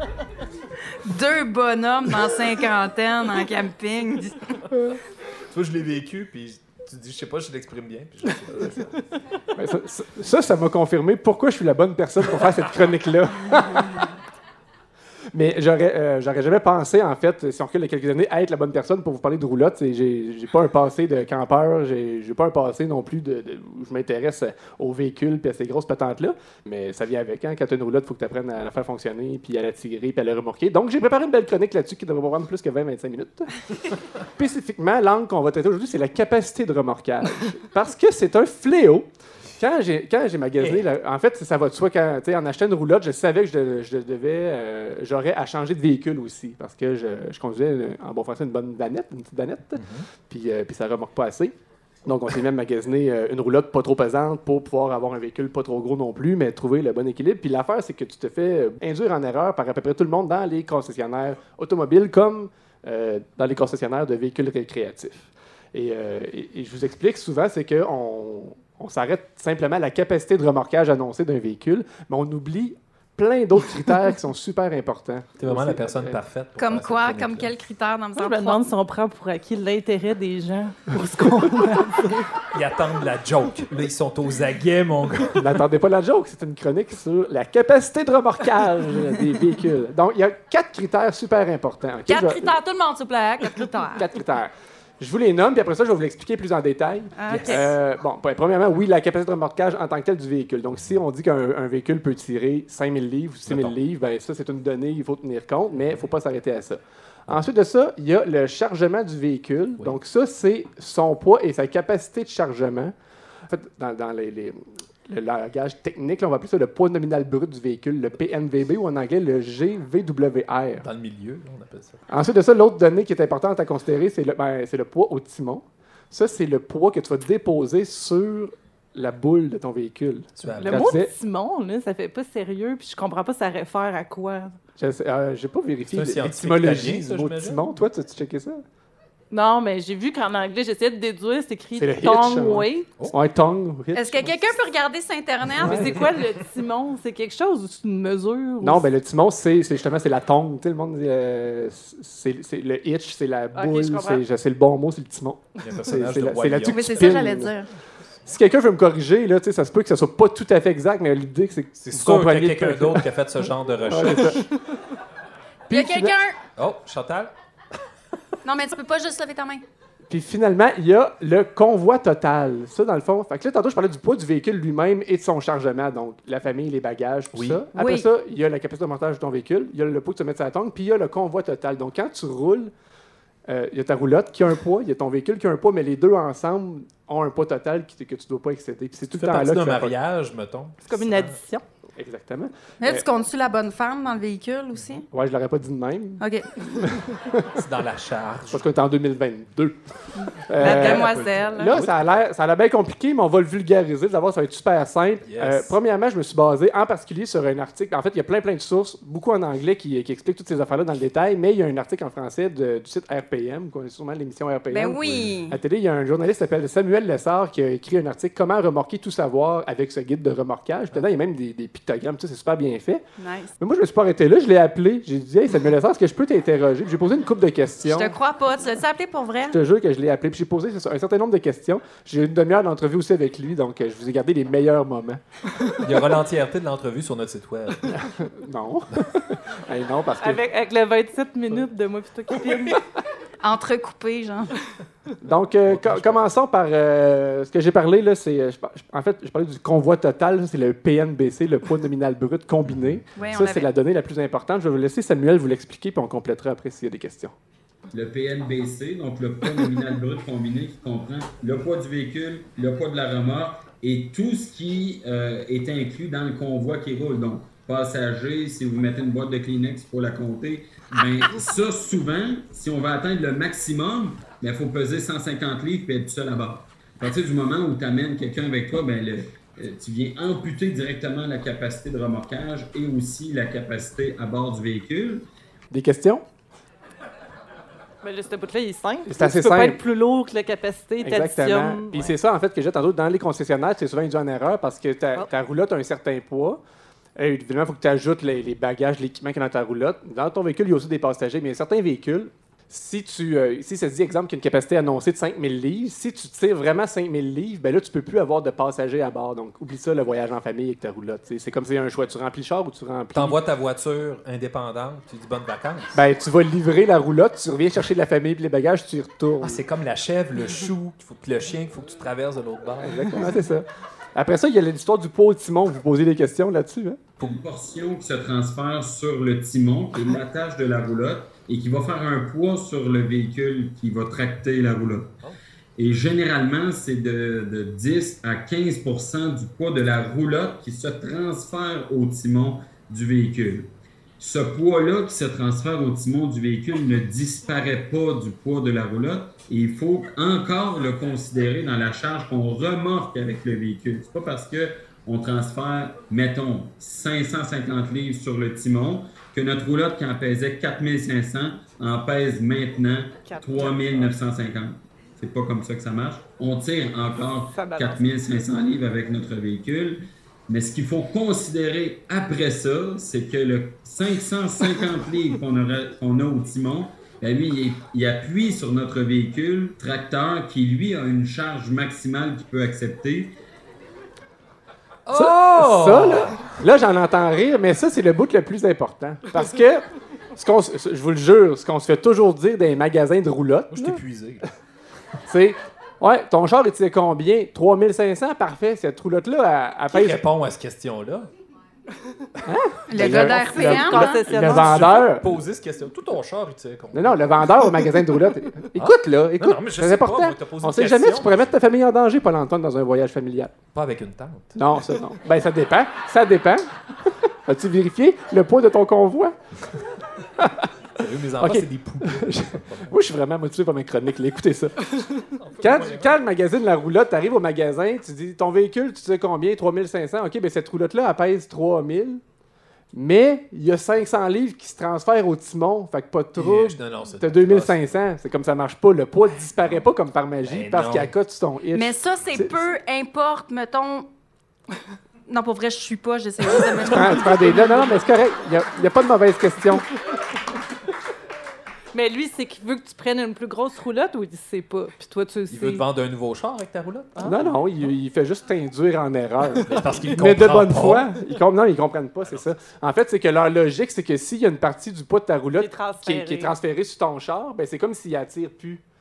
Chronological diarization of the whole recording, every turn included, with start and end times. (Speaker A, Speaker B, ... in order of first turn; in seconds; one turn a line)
Speaker A: 1.0-4.6
Speaker B: 5.5-9.0
Speaker C: 8.5-8.8
Speaker C: 9.5-14.1
Speaker C: 15.3-76.2
Speaker B: 40.6-40.9
Speaker B: 49.8-50.1
Speaker B: 75.4-77.5
Speaker A: 76.6-78.6
Speaker D: 78.1-82.2
Speaker B: 82.5-85.5
Speaker C: 85.3-92.5
Speaker A: 92.1-94.0
Speaker C: 93.9-112.9
Speaker A: 97.2-97.7
Speaker B: 97.3-97.7
Speaker B: 103.5-103.8
Speaker C: 113.5-120.9
Speaker B: 120.8-122.0
Speaker C: 122.1-131.1
Speaker B: 130.4-130.8
Speaker D: 130.6-134.5
Speaker C: 134.8-138.6
Speaker B: 135.9-137.6
Speaker D: 139.3-142.9
Speaker C: 141.8-144.4
Speaker A: 143.9-146.0
Speaker C: 145.6-145.8
Speaker D: 145.6-148.8
Speaker C: 148.6-157.5
Speaker D: 153.5-154.2
Speaker B: 155.6-157.4
Speaker A: 156.7-157.7
Speaker C: 158.2-163.1
Speaker B: 161.8-164.5
Speaker C: 163.9-164.5
Speaker C: 165.7-166.2
Speaker A: 165.7-166.4
Speaker B: 166.6-167.3
Speaker A: 168.4-169.6
Speaker C: 170.1-182.7
Speaker B: 177.3-177.6
Speaker A: 177.7-178.1
Speaker C: 183.5-189.9
Speaker B: 189.1-191.4
Speaker D: 190.9-191.6
Speaker C: 191.9-193.0
Speaker A: 192.8-195.0
Speaker C: 195.1-197.6
Speaker A: 196.2-196.8
Speaker B: 197.6-198.7
Speaker C: 198.5-223.0
Speaker A: 200.2-201.7
Speaker B: 200.5-202.0
Speaker B: 205.2-205.7
Speaker A: 214.7-215.6
Speaker B: 215.1-215.3
Speaker A: 223.2-223.5
Speaker C: 223.6-228.1
Speaker A: 227.9-229.6
Speaker C: 229.5-235.2
Speaker B: 235.8-238.0
Speaker C: 237.9-240.4
Speaker D: 240.2-242.8
Speaker A: 243.4-244.5
Speaker C: 245.2-257.3
Speaker B: 245.6-246.3
Speaker A: 253.2-253.7
Speaker E: 257.9-285.2
Speaker C: 285.7-286.2
Speaker D: 288.0-292.1
Speaker C: 289.1-289.8
Speaker C: 291.0-296.6
Speaker C: 297.1-313.4
Speaker B: 313.1-315.9
Speaker C: 315.9-319.6
Speaker B: 319.4-323.3
Speaker C: 322.8-327.0
Speaker E: 327.2-335.1
Speaker E: 335.8-383.4
Speaker D: 363.3-363.7
Speaker D: 367.5-368.0
Speaker B: 385.1-386.5
Speaker C: 385.1-394.0
Speaker B: 393.7-394.5
Speaker C: 395.3-400.2
Speaker B: 399.9-401.3
Speaker C: 402.4-405.4
Speaker A: 402.9-404.2
Speaker D: 403.1-405.0
Speaker B: 404.4-407.6
Speaker C: 406.9-413.5
Speaker B: 408.8-411.5
Speaker B: 413.7-414.6
Speaker C: 414.6-419.3
Speaker C: 420.4-420.7
Speaker B: 420.9-422.9
Speaker C: 421.4-424.9
Speaker B: 425.4-426.1
Speaker C: 425.6-432.2
Speaker C: 432.9-442.5
Speaker B: 436.4-437.9
Speaker B: 440.4-441.1
Speaker A: 441.7-444.1
Speaker A: 445.3-447.9
Speaker C: 446.5-449.9
Speaker D: 451.9-455.8
Speaker B: 455.5-457.6
Speaker C: 457.2-468.8
Speaker B: 459.5-461.1
Speaker B: 462.2-462.5
Speaker D: 465.5-466.5